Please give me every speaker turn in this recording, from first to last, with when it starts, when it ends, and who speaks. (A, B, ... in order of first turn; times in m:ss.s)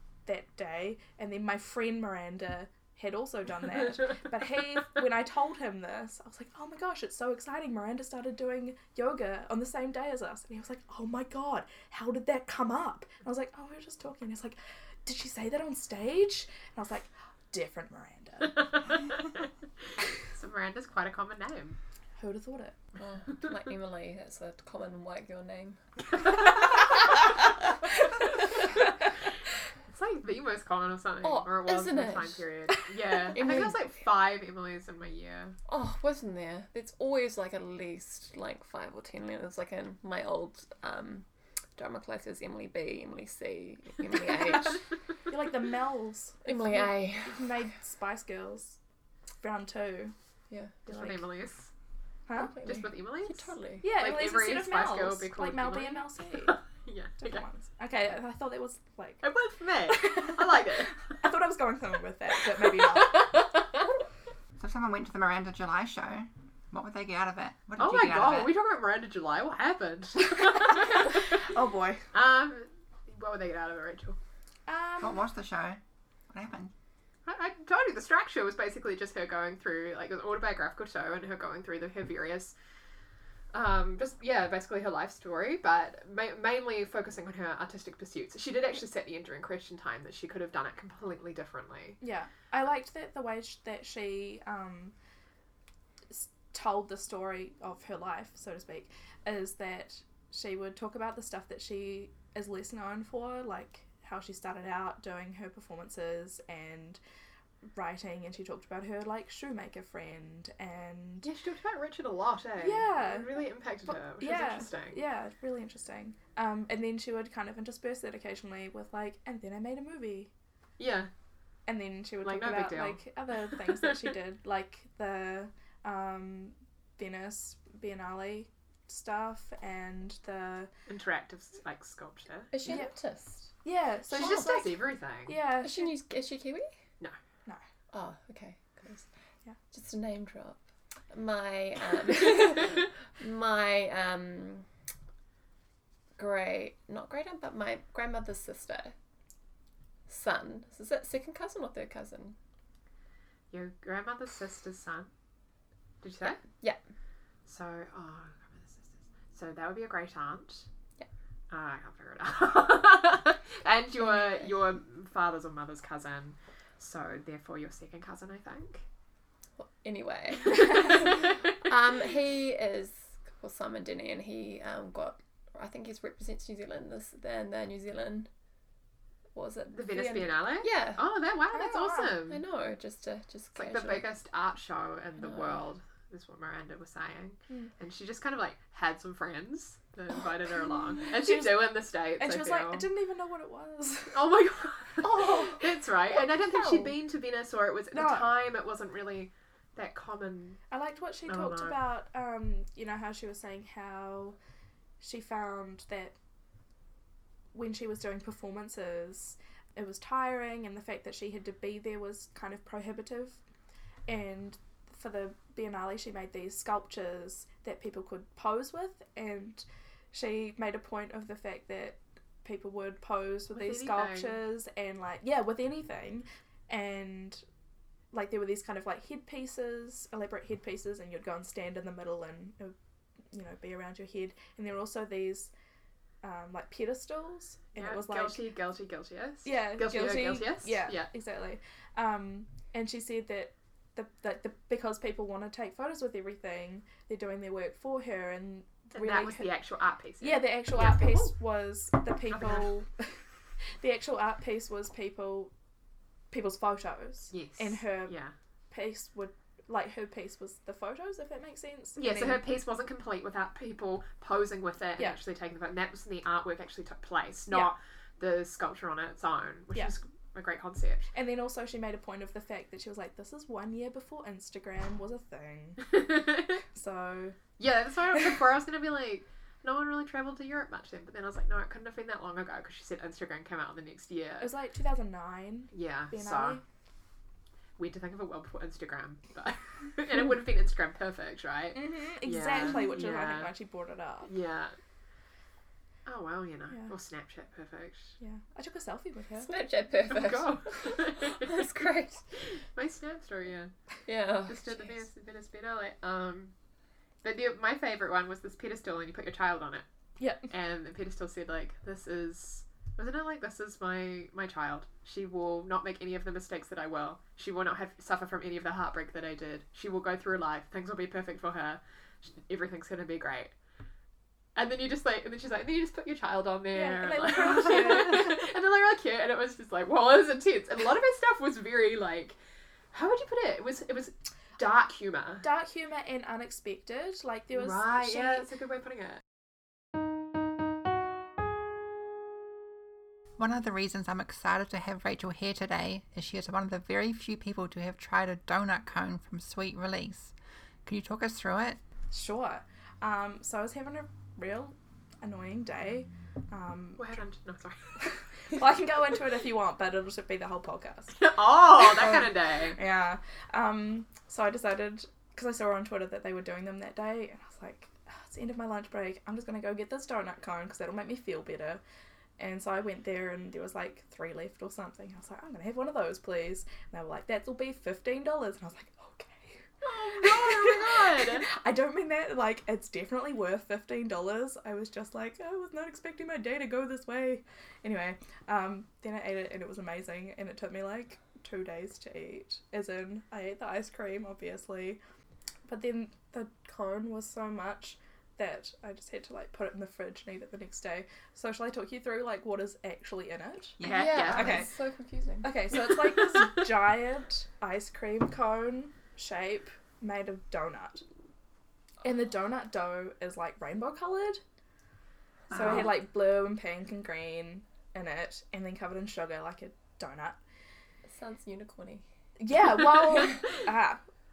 0:00.3-0:18.8 A
0:20.2-0:21.8 B
0:22.2-0:22.8 A
0:23.0-0:25.8 C
0:29.9-0:35.6 B
0:31.2-0:32.5 C
0:33.3-0:33.6 A
0:33.3-0:33.9 C
0:35.7-0:44.8 C
0:45.3-0:48.8 A
0:46.4-0:47.6 C
0:49.4-0:50.1 A
0:50.5-0:50.8 C
0:50.9-0:51.7 B
0:50.9-0:51.2 A
0:52.3-0:52.5 A
0:52.3-0:53.9 C
0:52.6-0:57.4 B
0:53.8-0:56.6 A
0:57.2-0:59.2 A
0:59.2-1:00.9 B
0:59.9-1:03.5 A
1:02.7-1:03.6 B
1:04.6-1:08.5 D
1:07.8-1:11.3 B
1:10.7-1:12.0 A
1:12.1-1:14.2 B
1:14.7-1:15.3 A
1:15.0-1:15.8 D
1:16.3-1:16.7 D
1:17.3-1:22.6 B
1:23.5-1:32.0 B
1:32.0-1:34.9 A
1:36.1-1:47.0 A
1:47.7-1:51.3 A
1:51.2-1:55.0 B
1:52.6-1:53.4 A
1:54.2-2:00.3 A
2:00.8-2:01.1 B
2:01.7-2:10.7 A
2:02.2-2:04.2 B
2:10.9-2:12.8 B
2:12.5-2:13.5 C
2:12.7-2:12.9 A
2:13.6-2:15.9 A
2:14.1-2:15.4 B
2:15.6-2:16.7 C
2:17.9-2:19.1 C
2:19.7-2:20.6 C
2:21.1-2:24.7 C
2:26.2-2:29.0 C
2:30.1-2:32.4 C
2:33.5-2:35.1 B
2:36.0-2:36.4 B
2:36.2-2:36.8 C
2:37.5-2:40.7 B
2:41.5-2:48.8 B
2:44.1-2:44.5 C
2:49.6-2:58.3 C
2:59.3-3:01.0 C
2:59.7-3:02.4 B
3:01.5-3:02.2 A
3:02.3-3:04.1 C
3:03.6-3:12.9 B
3:05.2-3:05.6 C
3:11.0-3:14.3 A
3:14.1-3:20.6 B
3:15.0-3:15.6 A
3:15.0-3:15.6 C
3:16.1-3:17.0 A
3:17.9-3:18.3 A
3:20.7-3:24.4 A
3:21.3-3:21.8 B
3:25.0-3:26.2 A
3:27.5-3:33.4 A
3:34.1-3:47.4 A
3:43.5-3:44.4 B
3:48.1-3:52.8 A
3:53.3-3:55.5 A
3:56.2-3:58.5 A
3:57.8-4:01.1 B
3:59.4-4:09.5 A
4:08.9-4:11.4 B
4:10.2-4:13.1 A
4:12.3-4:12.7 B
4:13.8-4:15.5 A
4:16.3-4:18.2 A
4:17.3-4:18.3 B
4:18.7-4:22.4 A
4:22.0-4:31.1 B
4:31.1-4:36.0 A
4:36.0-4:36.6 B
4:36.7-4:37.4 A
4:37.6-4:44.5 B
4:44.4-4:46.6 A
4:45.7-4:46.6 B
4:47.8-4:53.5 B
4:51.7-4:54.3 A
4:54.2-4:54.8 B
4:56.1-4:58.2 B
4:58.2-4:59.5 A
4:59.4-5:02.2 C
5:00.1-5:01.6 B
5:02.8-5:03.7 B
5:04.1-5:05.0 C
5:04.5-5:06.5 B
5:07.2-5:09.8 B
5:10.2-5:10.5 A
5:10.5-5:23.5 B
5:24.6-5:32.4 B
5:26.7-5:28.4 A
5:32.9-5:35.5 B
5:35.4-5:38.5 A
5:37.5-5:39.2 B
5:43.4-5:50.3 D
5:50.8-5:51.8 D
5:52.1-5:57.1 A
5:57.0-5:58.0 B
5:58.0-6:11.8 A
6:01.2-6:02.8 B
6:12.4-6:19.6 A
6:19.8-6:21.5 B
6:20.2-6:35.0 A
6:35.7-6:43.8 A
6:43.8-6:44.6 D
6:43.8-6:44.7 B
6:43.9-6:45.6 C
6:44.3-6:44.7 A
6:45.4-6:51.0 A
6:46.1-6:46.4 B
6:52.0-6:54.4 A
6:55.5-6:55.9 D
6:55.5-7:00.4 A
6:55.5-6:55.9 C
7:01.1-7:02.0 C
7:02.4-7:04.0 A